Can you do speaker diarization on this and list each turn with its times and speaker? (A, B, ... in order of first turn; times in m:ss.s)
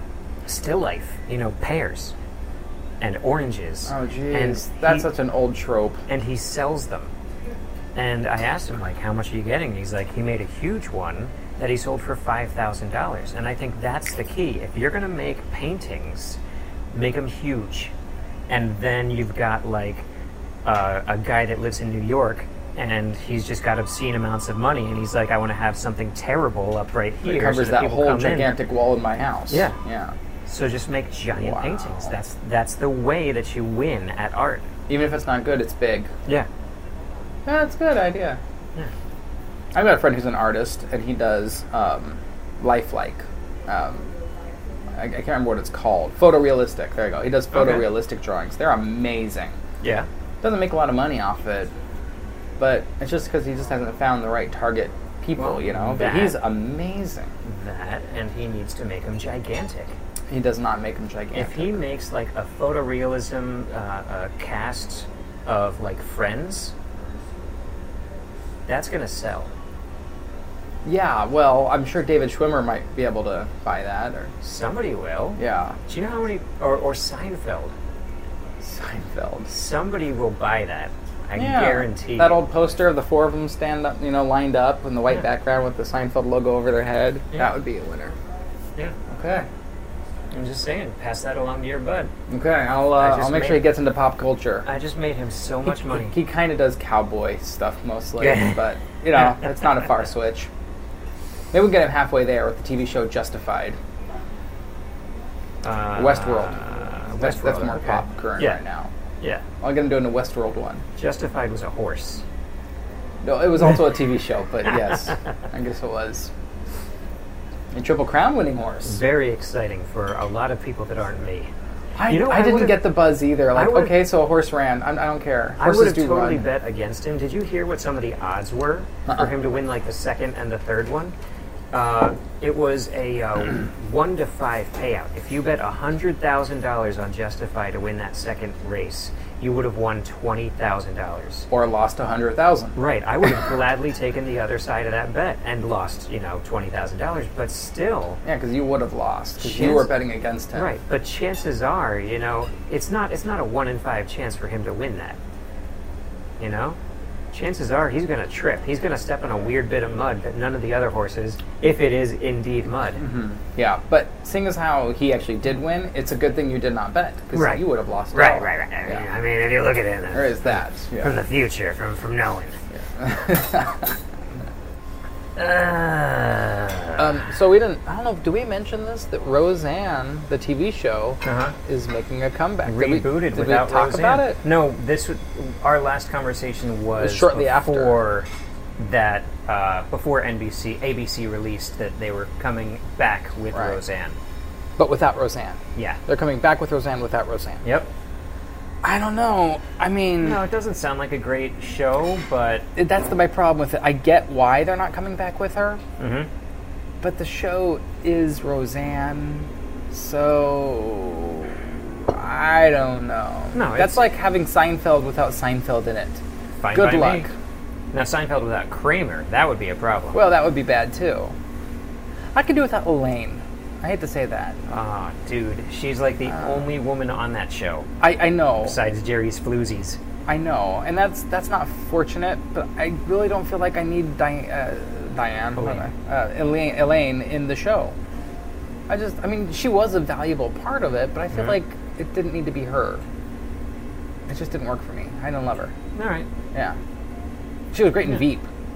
0:00.4-0:02.1 A
0:03.0-0:05.0 A
0:03.8-0:06.0 B
0:06.1-0:07.1 A
0:07.9-0:16.4 A
0:16.9-0:17.9 A
0:18.5-0:20.1 A
0:20.6-0:28.5 A
0:27.2-0:30.1 B
0:29.5-0:29.8 A
0:30.4-0:34.7 A
0:31.4-0:32.1 B
0:34.9-0:36.1 B
0:37.4-0:38.4 B
0:39.7-0:44.1 B
0:44.9-0:49.6 B
0:47.5-0:47.8 A
0:49.8-0:50.1 A
0:50.4-0:51.7 B
0:52.6-0:57.3 B
0:55.4-0:56.4 A
0:57.4-1:00.0 A
1:00.3-1:01.8 B
1:01.3-1:06.7 A
1:08.7-1:09.5 A
1:10.8-1:14.3 B
1:14.4-1:17.7 A
1:15.4-1:15.8 B
1:18.6-1:19.5 B
1:19.5-1:22.4 A
1:21.4-1:28.2 B
1:29.1-1:29.5 B
1:30.3-1:32.1 A
1:32.3-1:34.7 B
1:33.0-1:33.7 A
1:34.6-1:36.1 A
1:35.8-1:40.5 B
1:38.2-1:38.6 A
1:41.5-1:43.8 B
1:45.6-1:48.6 A
1:45.9-1:46.6 B
1:47.2-1:48.9 B
1:49.6-1:50.8 B
1:51.0-1:52.2 A
1:53.2-1:56.3 B
1:57.7-1:59.0 B
1:58.8-2:01.5 A
2:02.0-2:06.4 B
2:02.0-2:02.9 A
2:03.5-2:04.0 A
2:05.6-2:11.1 A
2:11.7-2:21.5 A
2:21.5-2:22.8 B
2:22.7-2:28.2 A
2:28.2-2:30.7 B
2:29.4-2:29.9 A
2:30.5-2:35.2 A
2:36.4-2:36.8 A
2:37.3-2:43.0 A
2:43.0-2:49.0 B
2:47.3-2:52.6 A
2:50.1-2:51.2 B
2:52.7-2:54.0 B
2:55.4-2:57.0 A
2:57.0-3:04.4 B
3:01.2-3:01.5 A
3:02.6-3:14.2 A
3:07.0-3:08.0 B
3:13.5-3:13.8 B
3:14.8-3:17.6 B
3:17.6-3:17.9 A
3:18.8-3:20.4 B
3:20.2-3:22.7 A
3:22.8-3:25.8 B
3:26.0-3:26.3 A
3:27.0-3:31.5 B
3:32.1-3:36.2 B
3:33.5-3:34.0 A
3:36.6-3:37.3 A
3:36.7-3:37.3 B
3:37.9-3:40.2 A
3:40.1-3:41.3 B
3:42.3-3:44.6 B
3:44.7-3:47.9 A
3:48.0-3:48.8 B
3:48.6-3:50.0 A
3:50.2-3:57.9 B
3:55.6-3:55.8 A
3:58.9-4:03.0 B
4:04.3-4:05.7 B
4:05.9-4:06.3 A
4:07.7-4:08.5 B